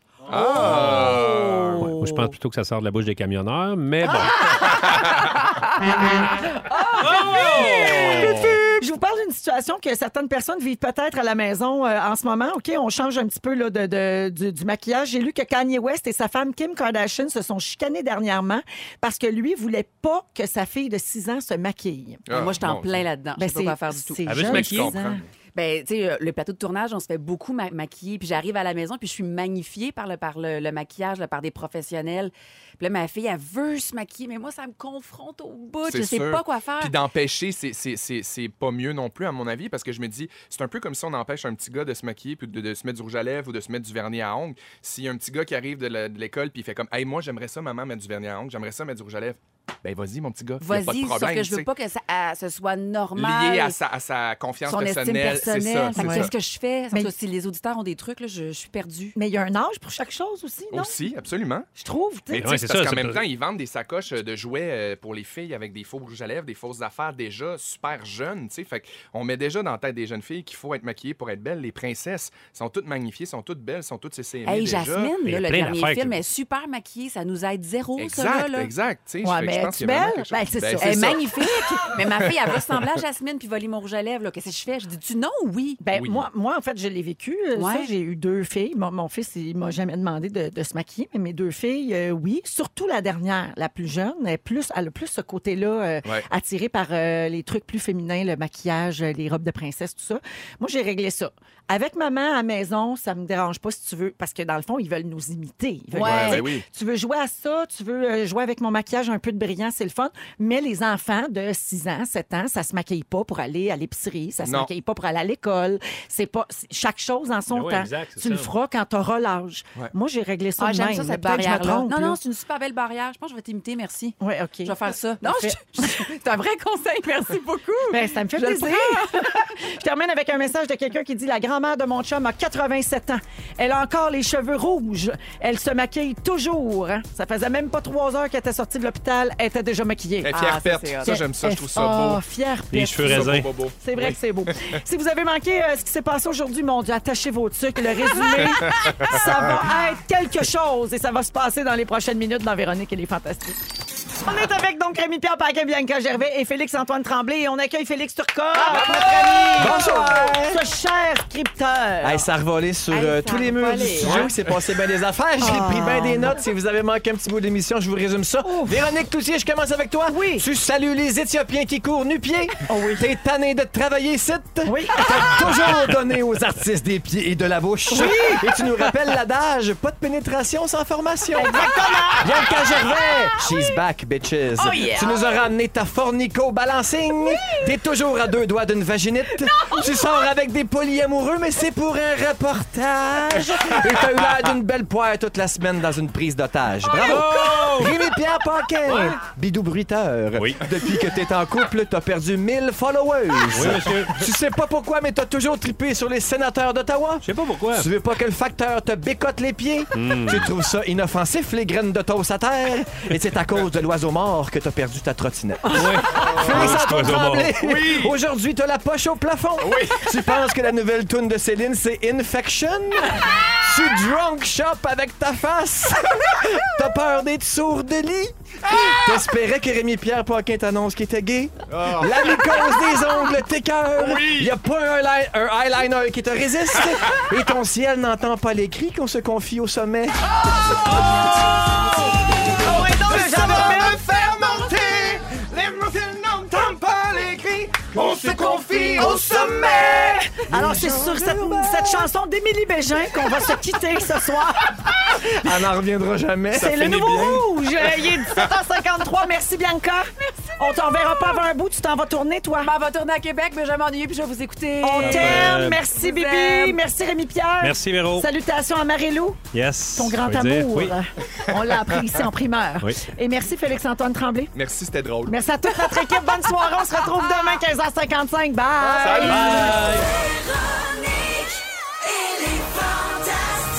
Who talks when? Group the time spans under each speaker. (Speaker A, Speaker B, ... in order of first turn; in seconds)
Speaker A: 0.3-1.9, 4.7-5.0, 8.1-8.6, 22.3-23.1, 24.4-25.2, 35.9-51.7, 53.2-56.3, 60.7-61.7, 62.3-75.1, 78.0-81.2, 85.9-86.3, 106.0-106.7, 114.4-114.7, 140.2-142.2, 143.0-144.8, 148.4-149.6, 158.7-159.8, 164.0-164.6, 216.1-218.2, 219.6-220.2, 228.7-229.2, 231.7-232.7, 234.0-234.6, 236.9-237.3, 240.4-250.7, 256.5-258.5, 274.5-275.4, 278.8-279.9
Speaker B: 0.3-2.3, 4.5-8.4, 22.3-24.2, 25.6-37.0, 50.6-53.8, 54.6-59.2, 74.5-78.7, 80.8-85.8, 87.5-87.9, 105.9-106.5, 120.6-129.5, 140.3-141.2, 148.2-149.5, 162.9-164.4, 182.8-183.7, 184.6-185.4, 187.3-187.7, 189.4-190.2, 260.2-261.4, 262.6-266.8
Speaker C: 0.5-1.2, 1.8-4.5, 7.0-8.4, 24.3-25.1, 62.4-63.2, 75.2-76.2, 117.5-118.5, 142.7-143.5, 197.0-198.0, 198.9-199.2, 200.4-200.7, 203.5-204.3, 207.2-207.9, 209.9-210.5, 215.7-217.6, 265.0-265.8, 267.6-268.3, 269.5-271.0, 272.8-273.1, 279.2-280.1
Speaker D: 4.0-4.9, 5.9-6.3, 6.9-22.2, 23.4-25.2, 56.0-56.3, 59.1-61.0, 61.8-62.5, 79.2-81.9, 85.8-122.2, 124.2-126.0, 127.9-140.3, 141.0-153.6, 154.2-162.3, 165.4-166.4, 168.4-168.9, 170.1-170.5, 172.7-173.1, 174.7-175.7, 177.9-178.6, 181.3-182.4, 242.5-244.1, 248.1-254.9, 256.5-262.7, 264.8-269.4, 269.9-274.5, 275.3-279.8
Speaker E: 158.7-160.6, 162.0-240.4, 248.2-249.8, 250.5-252.0, 255.3-257.3, 279.2-279.8